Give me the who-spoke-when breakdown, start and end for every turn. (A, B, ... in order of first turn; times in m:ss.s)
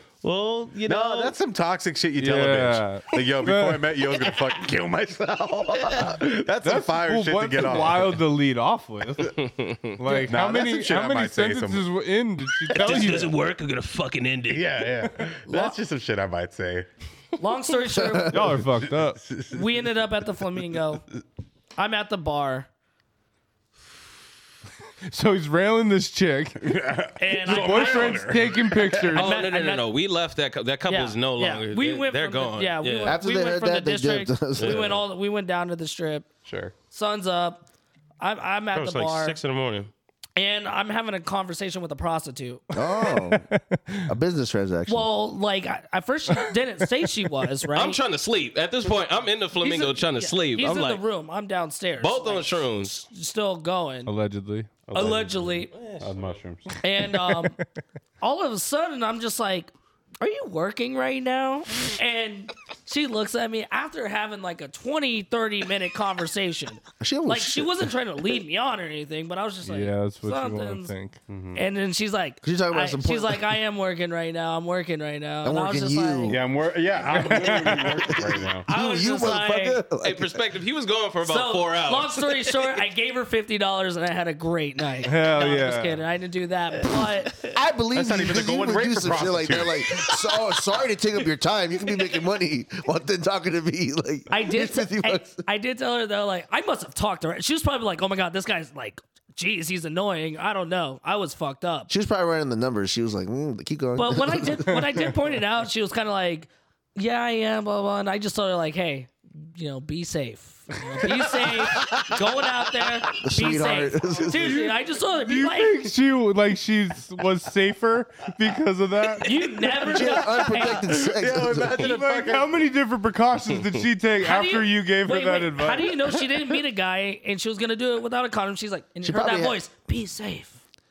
0:00.2-0:01.3 A
0:00.9-0:08.2 B
0:02.2-0:04.0 C
0:05.8-0:06.2 A
0:06.6-0:09.4 C
0:09.4-0:09.9 A
0:10.0-0:13.4 C
0:10.1-0:11.9 B
0:12.7-0:13.3 B
0:12.7-0:14.8 A
0:14.5-0:16.9 B
0:15.5-0:15.8 D
0:17.4-0:18.5 D
0:18.0-0:18.3 E
0:18.3-0:19.2 C
0:18.8-0:19.6 B
0:19.5-0:21.0 D
0:21.8-0:22.7 D
0:25.1-0:26.8 C
0:26.6-0:29.2 B
0:27.2-0:28.4 D
0:27.5-0:29.3 C
0:29.1-0:29.8 D
0:29.2-0:33.2 A
0:30.9-0:36.3 D
0:33.0-0:34.9 E
0:34.6-0:35.0 A
0:36.5-0:36.7 B
0:36.9-0:37.6 D
0:38.2-0:39.4 D
0:38.7-0:39.9 A
0:40.4-0:42.6 D
0:42.7-0:43.5 E
0:42.8-0:44.1 C
0:44.1-0:45.1 E
0:44.9-0:48.0 D
0:47.7-0:51.0 A
0:49.6-0:54.1 D
0:52.0-0:53.0 A
0:54.1-0:54.8 C
0:54.9-0:56.8 B
0:54.9-0:55.7 D
0:55.7-0:56.4 A
0:56.8-0:57.6 D
0:57.1-0:57.5 C
0:58.2-1:10.9 D
1:07.0-1:07.9 E
1:09.6-1:11.2 C
1:11.3-1:11.6 B
1:11.6-1:16.4 D
1:12.4-1:13.6 E
1:15.4-1:16.4 E
1:16.3-1:18.7 B
1:17.1-1:18.2 C
1:18.7-1:20.4 E
1:18.7-1:19.8 D
1:20.0-1:22.6 A
1:21.2-1:27.4 D
1:25.0-1:26.0 C
1:27.5-1:35.4 E
1:28.0-1:30.0 B
1:34.3-1:41.9 D
1:41.9-1:45.0 E
1:44.0-1:55.9 D
1:53.2-1:54.6 E
1:54.5-2:00.0 C
1:59.2-2:00.8 D
1:59.8-2:01.9 E
2:01.2-2:02.6 B
2:01.7-2:06.1 C
2:04.2-2:10.6 D
2:09.0-2:09.6 E